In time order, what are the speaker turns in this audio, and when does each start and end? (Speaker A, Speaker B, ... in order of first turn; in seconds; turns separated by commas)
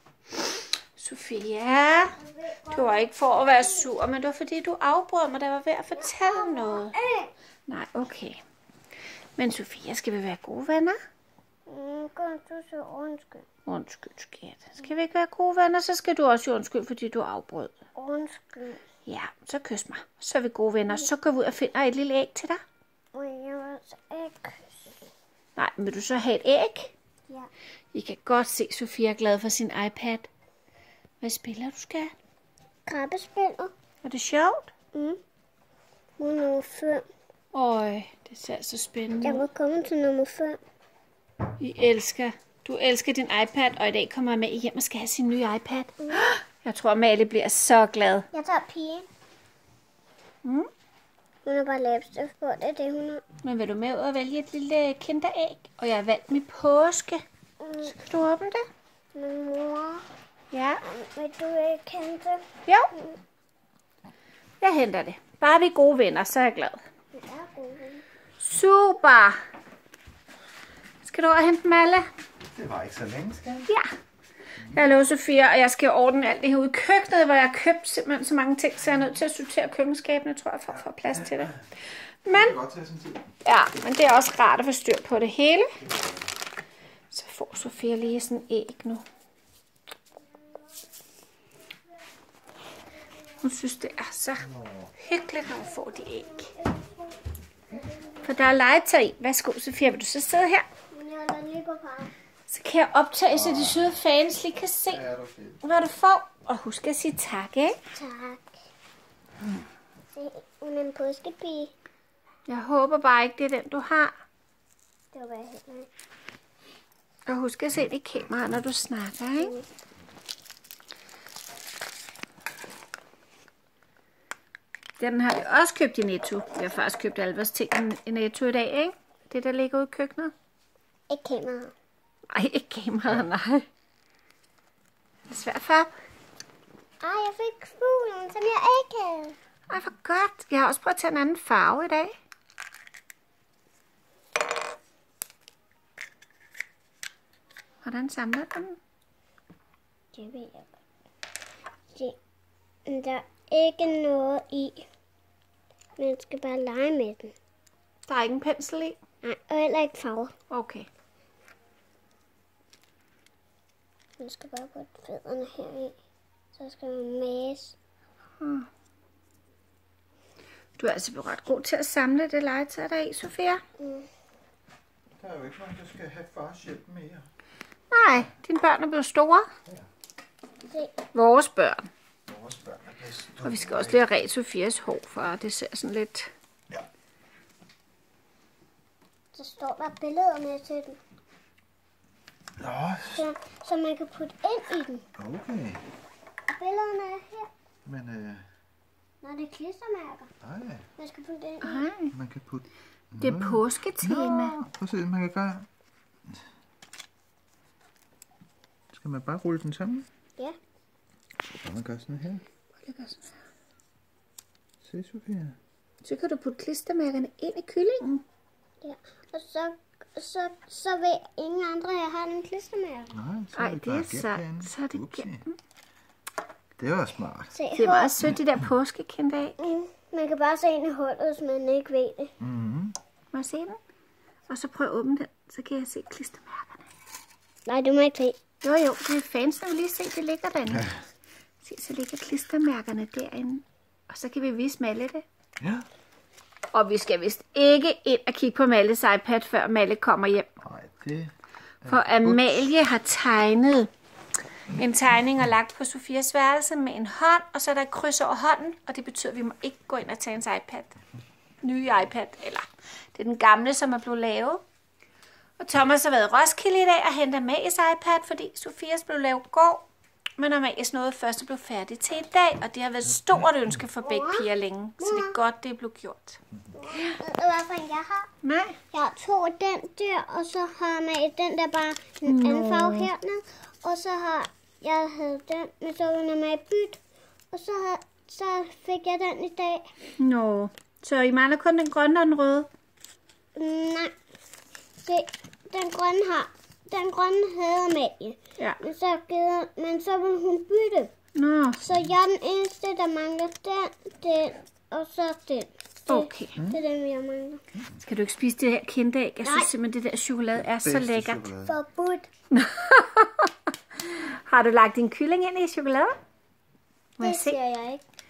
Speaker A: 0.3-2.1, Speaker B: 2.1-3.9, Speaker A: 2.7-7.0, Speaker B: 6.0-7.3, Speaker A: 7.7-8.4, Speaker A: 9.4-10.9, Speaker B: 11.7-13.4, Speaker A: 13.7-17.7, Speaker B: 17.9-18.8, Speaker A: 19.1-22.6, Speaker B: 23.1-24.9, Speaker A: 25.6-26.9, Speaker A: 27.9-30.3, Speaker A: 31.2-32.1, Speaker B: 32.9-33.7, Speaker A: 34.0-34.7, Speaker B: 34.9-35.2, Speaker B: 36.2-37.1, Speaker A: 37.5-39.5, Speaker B: 39.2-40.6, Speaker A: 41.6-48.3, Speaker B: 48.3-49.1, Speaker A: 50.4-50.7, Speaker B: 51.4-53.2, Speaker A: 53.4-57.2, Speaker B: 57.6-57.9, Speaker A: 57.8-58.6, Speaker B: 59.1-60.0, Speaker A: 60.5-60.8, Speaker B: 60.8-63.2, Speaker A: 62.6-62.9, Speaker A: 64.6-66.8, Speaker B: 67.1-68.0, Speaker A: 68.4-69.3, Speaker A: 71.0-72.1, Speaker C: 72.5-73.7, Speaker A: 74.7-81.6, Speaker A: 82.2-82.5, Speaker C: 82.3-83.3, Speaker A: 83.4-85.8, Speaker A: 87.1-89.0, Speaker A: 93.4-96.5, Speaker B: 96.3-97.1, Speaker A: 98.2-100.7, Speaker B: 100.9-102.1, Speaker A: 102.5-105.0, Speaker C: 103.3-103.9, Speaker C: 104.9-105.6, Speaker A: 105.6-107.8, Speaker B: 107.9-108.5, Speaker B: 110.1-111.7, Speaker A: 112.5-114.1, Speaker B: 115.1-115.9, Speaker A: 117.3-119.5, Speaker B: 119.4-119.7, Speaker A: 125.0-130.3, Speaker B: 131.1-131.7, Speaker A: 132.3-133.7, Speaker A: 135.3-135.9, Speaker B: 137.0-139.3, Speaker A: 139.7-142.1, Speaker A: 147.8-148.8, Speaker B: 150.1-150.7, Speaker B: 152.8-154.8, Speaker B: 156.0-157.3, Speaker A: 158.1-159.0, Speaker B: 159.2-160.3, Speaker A: 160.5-160.9, Speaker B: 164.2-165.9, Speaker B: 166.5-167.8, Speaker A: 168.4-168.7, Speaker A: 170.8-173.6, Speaker B: 173.8-174.1, Speaker C: 175.2-177.3, Speaker A: 177.9-179.5, Speaker B: 180.7-181.0, Speaker A: 181.1-181.9, Speaker C: 182.3-184.0, Speaker A: 183.4-186.3, Speaker B: 189.3-191.0, Speaker C: 192.6-193.2, Speaker B: 193.1-195.0, Speaker C: 195.2-195.8, Speaker B: 196.5-197.5, Speaker C: 197.8-198.4, Speaker B: 199.2-200.3, Speaker C: 200.4-200.8, Speaker B: 201.0-201.9, Speaker A: 201.6-202.1, Speaker C: 202.1-205.7, Speaker A: 203.2-204.6, Speaker C: 208.9-210.1, Speaker C: 211.6-212.4, Speaker A: 212.8-213.3, Speaker C: 214.8-215.6, Speaker A: 216.0-218.2, Speaker B: 218.8-223.2, Speaker C: 223.1-225.4, Speaker A: 223.5-225.5, Speaker C: 226.8-227.5, Speaker B: 227.5-228.1, Speaker A: 227.8-229.6, Speaker B: 229.6-232.3, Speaker C: 232.4-232.9, Speaker A: 233.3-233.8, Speaker A: 234.5-236.9, Speaker B: 237.7-238.4, Speaker A: 238.6-240.9, Speaker A: 241.6-245.2, Speaker C: 245.6-245.8, Speaker A: 246.7-250.5, Speaker C: 250.6-252.6, Speaker A: 251.9-253.9, Speaker A: 254.7-260.9, Speaker A: 261.6-264.6, Speaker A: 265.6-269.8, Speaker A: 270.4-276.4, Speaker B: 274.0-274.5, Speaker B: 275.0-275.4, Speaker B: 276.7-278.3, Speaker A: 278.4-278.8, Speaker B: 278.9-287.0, Speaker A: 282.2-283.1, Speaker B: 287.5-289.9, Speaker A: 290.2-292.7, Speaker B: 293.5-294.1, Speaker B: 295.0-301.1, Speaker A: 301.3-301.8, Speaker B: 301.8-307.6, Speaker A: 306.1-306.6, Speaker A: 308.0-311.5, Speaker B: 309.4-309.7, Speaker C: 310.8-311.7, Speaker B: 311.6-312.3, Speaker A: 312.5-316.1, Speaker A: 317.2-317.6, Speaker B: 317.2-318.0